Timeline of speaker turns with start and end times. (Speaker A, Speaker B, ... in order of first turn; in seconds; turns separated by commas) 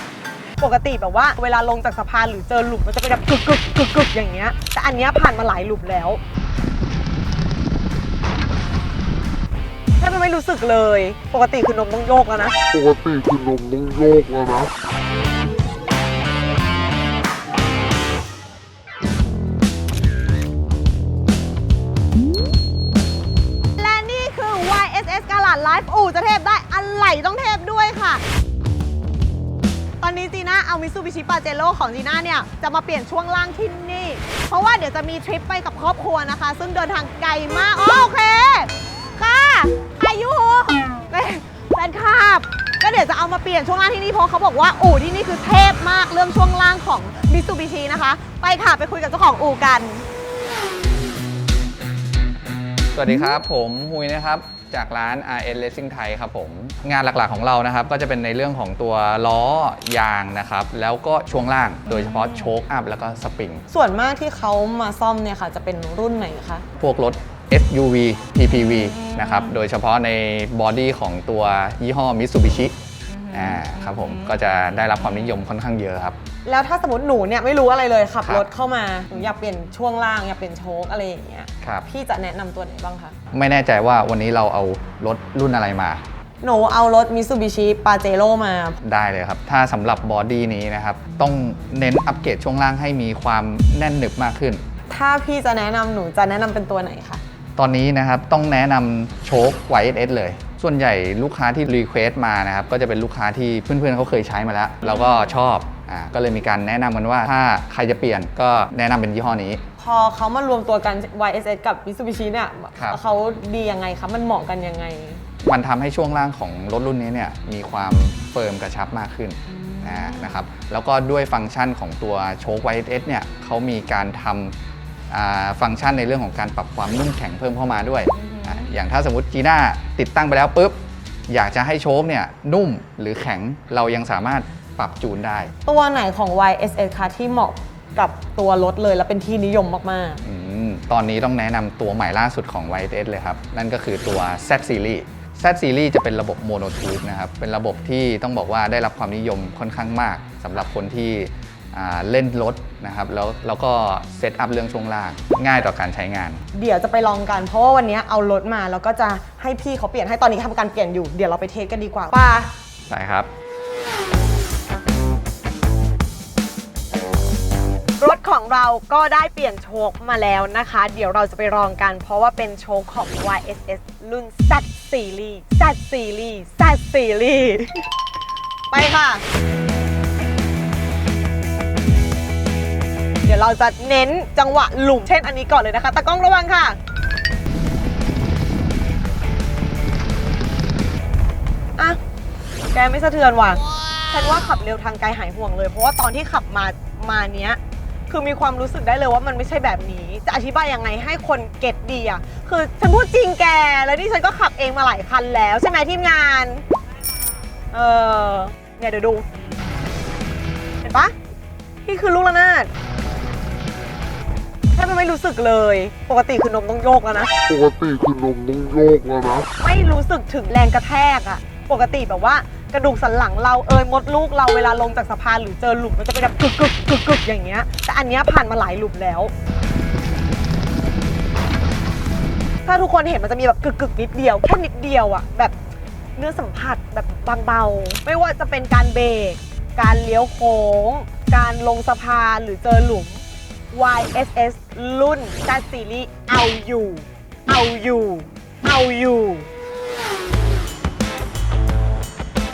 Speaker A: 0.6-6.2, Speaker A: 10.0-12.5, Speaker B: 13.4-13.9, Speaker A: 23.8-28.2, Speaker A: 30.0-50.0, Speaker C: 52.9-63.6, Speaker A: 63.7-66.6, Speaker C: 66.8-72.7, Speaker C: 73.3-76.2, Speaker A: 76.4-83.1, Speaker C: 81.6-81.9, Speaker C: 83.3-86.0, Speaker A: 86.4-88.8, Speaker C: 88.8-94.6, Speaker A: 94.9-97.2, Speaker C: 97.6-109.6, Speaker A: 109.8-115.2, Speaker C: 115.4-124.5, Speaker C: 125.1-135.5, Speaker A: 135.7-140.2, Speaker C: 140.2-156.4, Speaker A: 156.5-162.5, Speaker C: 162.9-163.3, Speaker A: 168.0-177.8, Speaker A: 178.7-179.2, Speaker A: 183.2-186.8, Speaker A: 192.7-206.6, Speaker A: 207.7-209.2, Speaker A: 210.8-211.1, Speaker A: 211.8-212.7, Speaker A: 214.7-217.3, Speaker B: 217.7-219.2, Speaker A: 219.5-229.3, Speaker A: 232.6-235.5, Speaker A: 236.2-249.5